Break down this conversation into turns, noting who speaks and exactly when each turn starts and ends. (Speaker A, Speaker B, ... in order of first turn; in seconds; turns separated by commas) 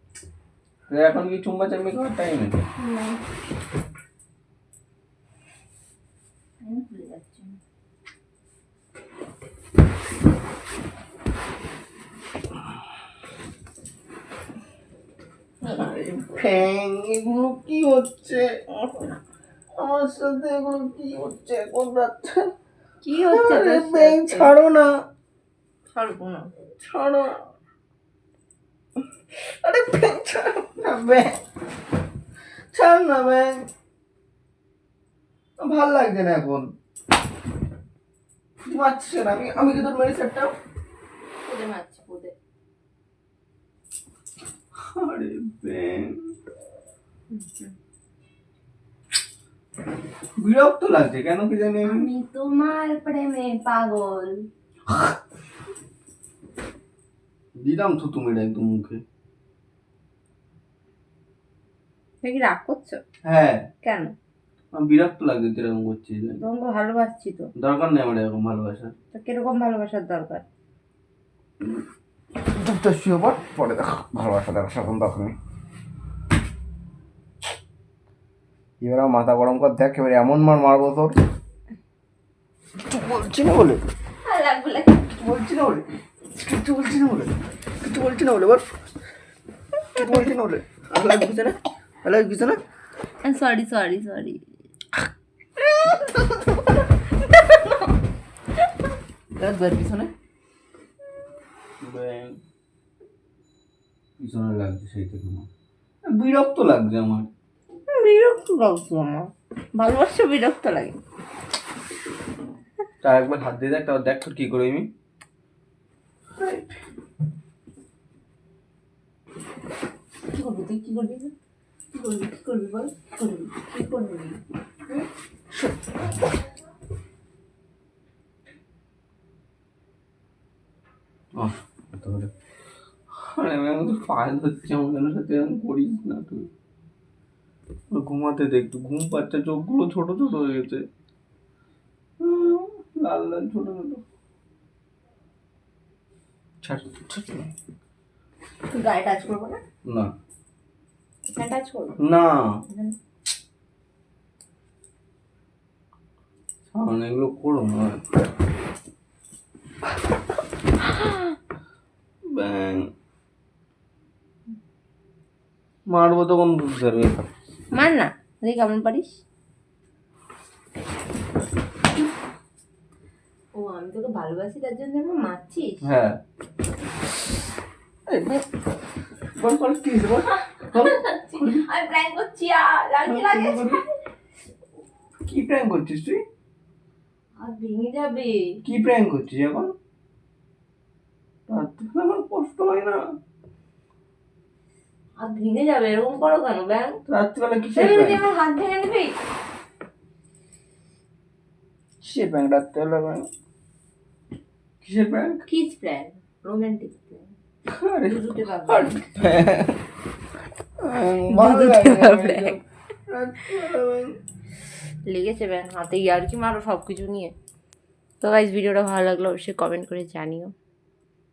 Speaker A: 0.9-2.6, Speaker B: 2.8-3.2, Speaker B: 6.6-7.6, Speaker A: 15.6-18.8, Speaker A: 19.8-22.5, Speaker B: 23.0-24.5, Speaker A: 23.2-24.9, Speaker B: 25.9-26.5, Speaker A: 26.8-27.4, Speaker A: 29.4-31.4, Speaker A: 32.7-33.6, Speaker A: 35.6-36.7, Speaker A: 38.6-40.5, Speaker B: 41.4-42.3, Speaker A: 44.8-46.3, Speaker B: 47.3-47.7, Speaker A: 50.4-52.1, Speaker B: 51.8-54.5, Speaker A: 57.6-59.0, Speaker B: 62.2-63.0, Speaker A: 63.2-63.6, Speaker B: 63.8-64.1, Speaker A: 64.7-66.4, Speaker B: 66.4-67.5, Speaker A: 67.6-68.9, Speaker B: 69.1-70.4, Speaker A: 72.4-75.3, Speaker A: 78.8-81.2, Speaker A: 82.8-83.8, Speaker B: 84.2-85.1, Speaker A: 85.1-88.6, Speaker A: 89.9-92.6, Speaker B: 93.2-94.4, Speaker A: 95.6-96.6, Speaker A: 99.3-100.1, Speaker A: 101.8-102.4, Speaker A: 104.2-105.5, Speaker A: 106.1-107.3, Speaker B: 107.9-111.0, Speaker A: 113.0-114.9, Speaker A: 116.4-116.7, Speaker B: 120.3-121.3, Speaker B: 121.9-124.4, Speaker A: 131.3-132.3, Speaker A: 133.2-136.5, Speaker A: 137.9-140.8, Speaker A: 142.2-144.0, Speaker A: 146.6-147.5, Speaker B: 148.7-149.6, Speaker A: 149.8-150.1, Speaker B: 151.3-152.0, Speaker A: 152.0-152.5, Speaker B: 152.7-152.9, Speaker A: 156.7-158.0, Speaker B: 160.9-161.2, Speaker A: 162.3-162.9, Speaker A: 165.9-167.3, Speaker B: 167.7-169.2, Speaker B: 173.5-175.8, Speaker A: 175.8-176.2, Speaker A: 178.1-178.4, Speaker A: 179.3-181.7, Speaker B: 180.3-183.8, Speaker A: 183.1-183.8, Speaker A: 185.3-186.2, Speaker B: 187.4-188.6, Speaker A: 188.6-189.7, Speaker A: 191.5-193.0, Speaker B: 195.2-197.0, Speaker A: 197.1-198.2, Speaker B: 197.7-199.1, Speaker A: 202.0-203.3, Speaker A: 204.8-205.4, Speaker B: 205.5-207.3, Speaker A: 207.7-209.8, Speaker B: 208.0-209.1, Speaker A: 210.8-214.2, Speaker B: 211.3-212.6, Speaker B: 215.1-217.3, Speaker B: 218.2-220.5